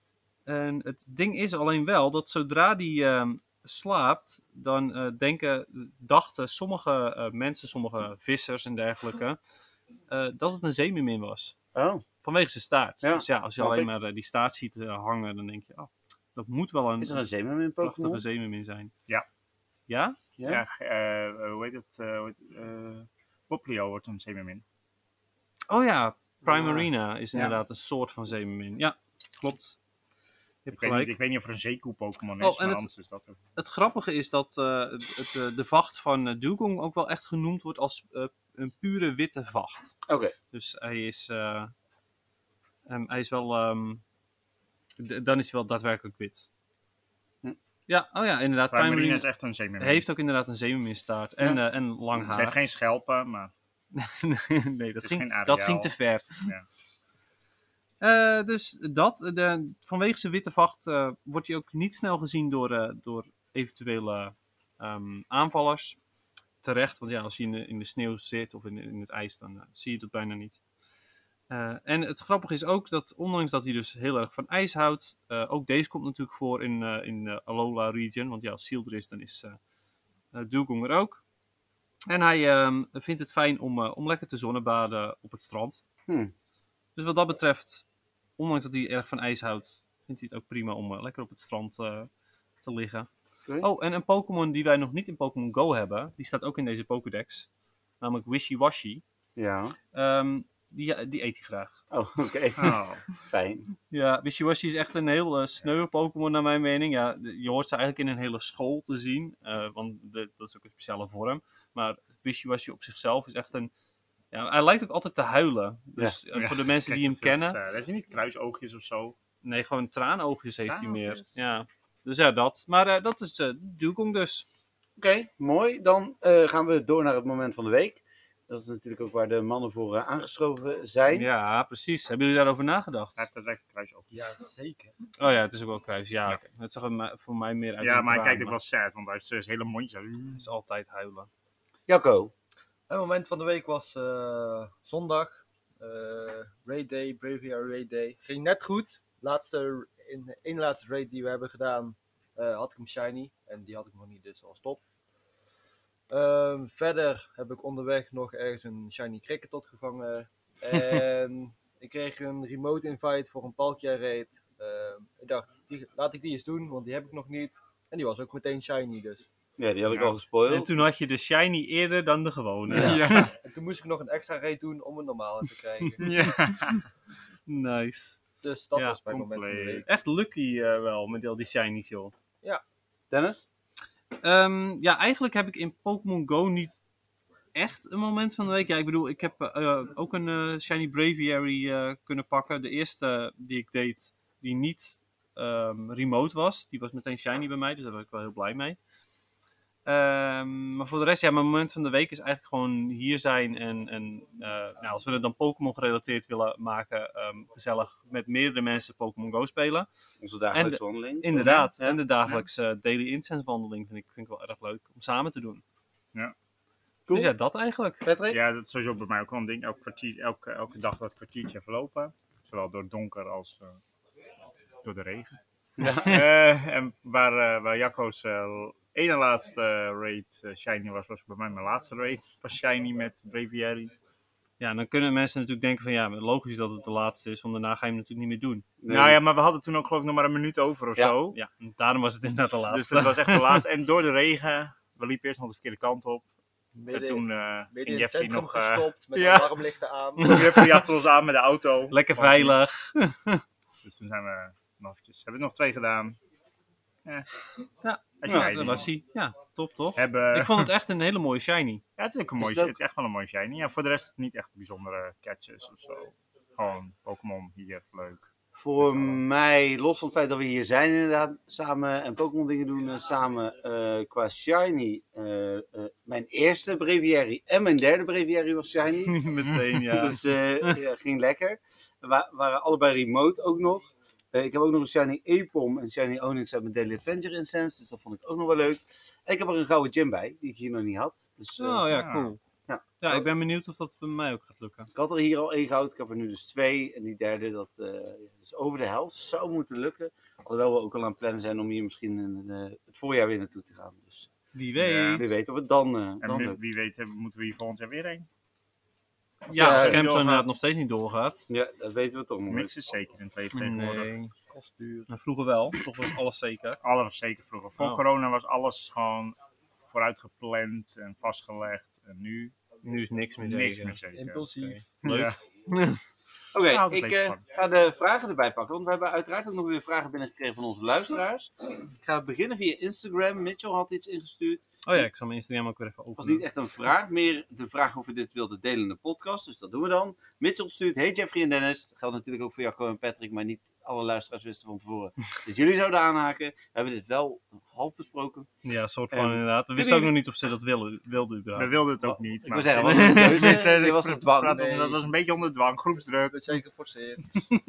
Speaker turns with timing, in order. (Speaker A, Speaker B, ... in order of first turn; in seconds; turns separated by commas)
Speaker A: 0.5-9.4, Speaker A: 10.1-11.6, Speaker B: 11.8-12.1, Speaker A: 12.2-17.3, Speaker B: 13.0-13.9, Speaker B: 17.0-18.2, Speaker A: 17.8-18.9, Speaker A: 19.9-20.2, Speaker B: 20.4-20.6, Speaker C: 20.5-24.6, Speaker A: 25.7-29.8, Speaker B: 26.4-27.6, Speaker A: 30.7-31.1, Speaker C: 30.7-33.4, Speaker A: 32.4-32.9, Speaker A: 33.6-40.0, Speaker B: 40.1-40.4, Speaker A: 40.5-41.7, Speaker A: 42.9-44.0, Speaker A: 45.0-46.5, Speaker A: 47.9-49.3, Speaker C: 48.7-50.0, Speaker A: 49.8-52.6, Speaker C: 52.2-53.5, Speaker A: 53.9-56.5, Speaker C: 55.0-55.9, Speaker A: 58.0-66.0, Speaker A: 66.6-70.6, Speaker A: 71.5-79.6, Speaker A: 80.3-81.2, Speaker A: 82.1-85.8, Speaker B: 86.1-86.3, Speaker A: 87.0-87.8, Speaker A: 88.4-92.1, Speaker A: 92.6-93.1, Speaker A: 93.6-97.5, Speaker A: 98.0-99.0, Speaker B: 99.4-99.8, Speaker A: 99.9-101.8, Speaker B: 101.9-103.7, Speaker C: 102.6-103.0, Speaker A: 103.9-113.7, Speaker A: 114.3-117.6, Speaker C: 116.3-119.2, Speaker A: 119.4-124.5, Speaker C: 120.7-121.4, Speaker B: 125.0-131.3, Speaker A: 131.1-133.3, Speaker C: 133.2-134.2, Speaker D: 134.1-134.9, Speaker A: 135.2-138.6, Speaker C: 137.8-140.4, Speaker A: 140.4-141.3, Speaker B: 141.9-142.3, Speaker D: 142.9-154.8, Speaker D: 156.1-169.3, Speaker B: 169.6-170.7, Speaker A: 170.5-173.3, Speaker B: 172.7-173.0, Speaker C: 172.7-173.4, Speaker D: 173.4-176.3, Speaker C: 176.0-176.8, Speaker A: 177.5-178.2, Speaker D: 178.4-179.9, Speaker C: 179.1-179.8, Speaker A: 179.8-182.1, Speaker B: 183.1-183.5, Speaker A: 184.2-186.8, Speaker A: 187.6-198.8, Speaker A: 199.9-209.9, Speaker B: 210.2-212.0, Speaker A: 210.5-215.6, Speaker B: 217.1-217.3, Speaker A: 217.1-218.1, Speaker B: 218.0-218.4, Speaker C: 218.3-223.8, Speaker C: 224.8-225.3, Speaker B: 225.8-226.3, Speaker C: 225.9-233.9, Speaker A: 234.6-238.7, Speaker B: 238.8-239.2, Speaker C: 238.9-241.4, Speaker A: 241.3-243.6, Speaker C: 242.7-246.3, Speaker D: 246.8-250.6, Speaker C: 246.9-249.5, Speaker A: 250.2-250.8, Speaker C: 250.2-252.6, Speaker A: 251.9-253.4, Speaker C: 253.8-256.2, Speaker A: 257.8-261.8, Speaker C: 258.2-258.9, Speaker B: 258.2-258.9, Speaker C: 260.0-260.7, Speaker C: 262.0-268.3, Speaker B: 262.4-262.8, Speaker B: 268.6-279.2, Speaker C: 268.8-269.2, Speaker A: 279.1-280.8, Speaker B: 279.8-291.9, Speaker A: 291.6-292.4, Speaker C: 291.9-292.3, Speaker B: 292.7-293.3, Speaker A: 293.0-294.9, Speaker B: 294.9-304.3, Speaker A: 304.5-305.3, Speaker C: 304.8-305.3, Speaker B: 305.1-306.6, Speaker C: 306.2-308.3, Speaker C: 309.5-310.5, Speaker A: 309.5-311.5, Speaker B: 309.5-310.1, Speaker B: 311.5-312.7, Speaker C: 312.5-314.1, Speaker A: 313.5-314.3, Speaker D: 314.4-315.1, Speaker A: 315.1-316.8, Speaker C: 316.8-319.4, Speaker C: 319.9-322.6, Speaker A: 322.8-324.0, Speaker C: 323.4-325.4, Speaker D: 324.1-324.9, Speaker A: 325.0-326.0, Speaker B: 326.5-335.0, Speaker C: 326.6-327.4, Speaker A: 334.9-336.4, Speaker B: 336.2-348.5, Speaker A: 348.6-351.8, Speaker B: 349.1-350.1, Speaker C: 351.6-356.4, Speaker B: 352.0-354.8, Speaker A: 352.8-353.6, Speaker D: 354.5-355.0, Speaker D: 356.3-357.4